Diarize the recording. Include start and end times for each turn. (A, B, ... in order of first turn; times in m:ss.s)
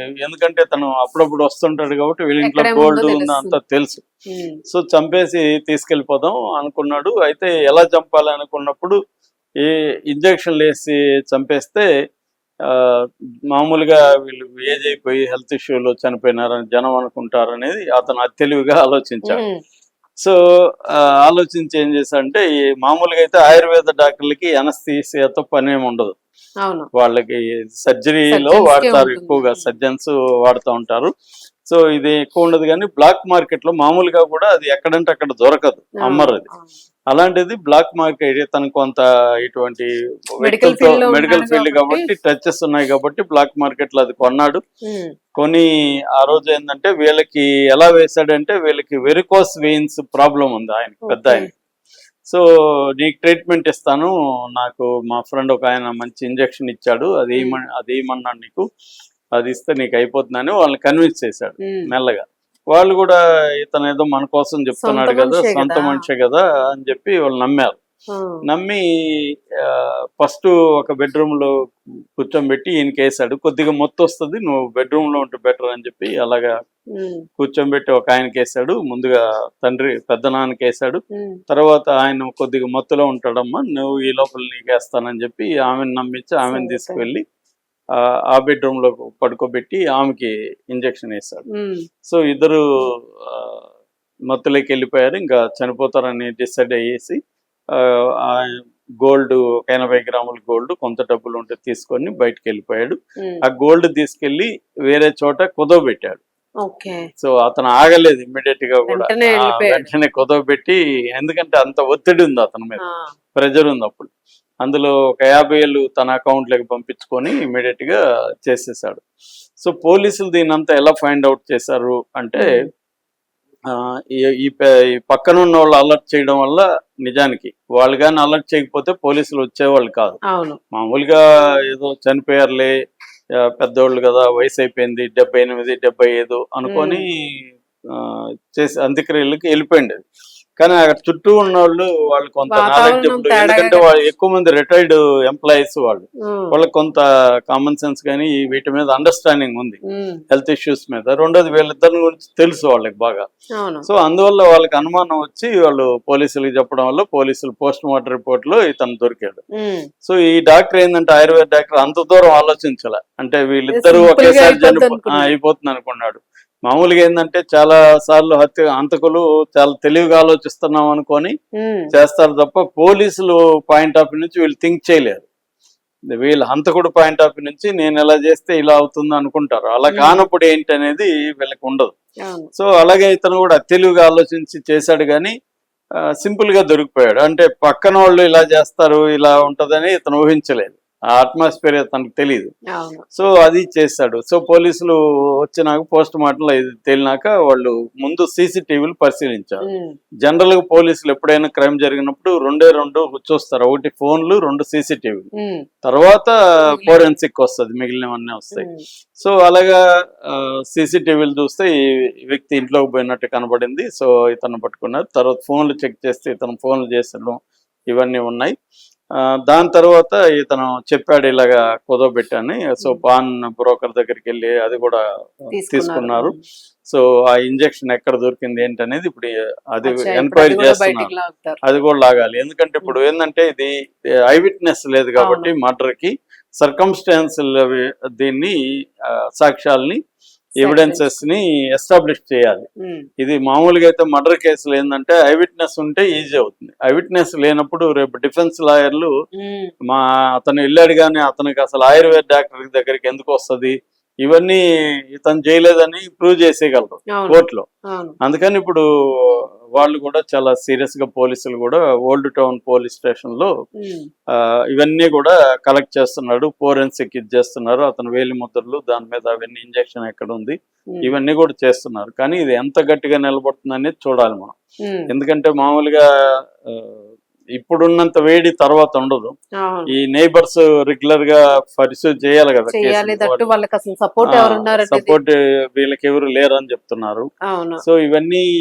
0:00.2-0:04.0 A
0:02.4-0:03.6 B
0:04.3-0:04.6 B
0:04.7-0:09.0 A
0:09.6-0:11.9 A
0:12.7-0:13.0 A
0:13.5-0:19.4 A
0:19.3-0:19.6 B
0:20.9-0:26.2 A
0:26.9-0:31.1 A
0:28.3-0:29.6 B
0:31.7-0:36.5 A
0:36.0-0:36.7 B
0:37.1-0:44.6 A
0:40.4-0:42.1 B
0:44.9-0:45.1 B
0:45.4-0:51.5 A
0:51.1-0:51.5 B
0:53.0-0:58.6 A
0:59.4-1:07.8 A
1:04.8-1:06.0 B
1:08.1-1:08.4 B
1:08.5-1:08.8 A
1:09.6-1:11.5 A
1:12.2-1:16.5 A
1:17.0-1:17.2 B
1:17.4-1:27.2 A
1:26.5-1:27.0 B
1:28.0-1:31.4 A
1:31.5-1:31.8 B
1:32.1-1:32.6 A
1:33.2-1:33.6 A
1:34.3-1:37.2 A
1:37.7-1:46.2 A
1:46.6-1:47.1 B
1:47.2-1:52.8 A
1:48.9-1:49.9 B
1:52.8-1:53.1 B
1:53.4-1:54.1 A
1:54.6-1:59.0 A
1:59.6-2:02.5 A
2:02.4-2:02.7 B
2:03.7-2:10.2 A
2:10.3-2:10.6 B
2:10.7-2:12.7 A
2:13.6-2:17.2 A
2:16.7-2:17.0 B
2:17.9-2:20.0 A
2:20.6-2:29.8 A
2:22.5-2:23.9 B
2:26.3-2:26.5 B
2:29.9-2:30.2 B
2:30.3-2:33.2 A
2:33.6-2:33.9 B
2:33.9-2:39.4 A
2:39.6-2:39.9 B
2:40.0-2:51.3 A
2:43.7-2:45.3 B
2:51.6-2:51.9 B
2:51.9-2:55.2 A
2:56.1-3:01.9 A
2:59.9-3:00.2 B
3:02.2-3:02.5 B
3:02.6-3:05.3 A
3:06.2-3:12.5 A
3:12.7-3:13.0 B
3:13.1-3:19.6 A
3:19.6-3:20.0 B
3:20.2-3:25.3 A
3:25.8-3:37.4 A
3:26.6-3:26.9 B
3:28.6-3:28.8 B
3:37.9-3:38.5 A
3:39.5-3:45.0 A
3:45.5-3:46.4 B
3:45.7-3:46.3 A
3:46.9-3:51.1 A
3:49.8-3:51.6 B
3:51.6-3:53.7 A
3:54.3-3:58.5 A
3:55.2-3:55.5 B
3:59.1-4:00.0 A
4:00.6-4:02.7 A
4:00.6-4:01.1 B
4:03.2-4:09.1 A
4:09.4-4:09.7 B
4:09.8-4:17.6 A
4:17.1-4:18.2 B
4:18.2-4:23.5 A
4:23.8-4:24.1 B
4:24.7-4:34.5 A
4:34.8-4:35.1 B
4:35.1-4:36.0 A
4:36.7-4:39.3 A
4:39.6-4:39.9 B
4:39.9-4:43.4 A
4:42.7-4:45.2 B
4:44.2-4:47.3 A
4:47.5-4:47.8 B
4:47.8-4:48.5 A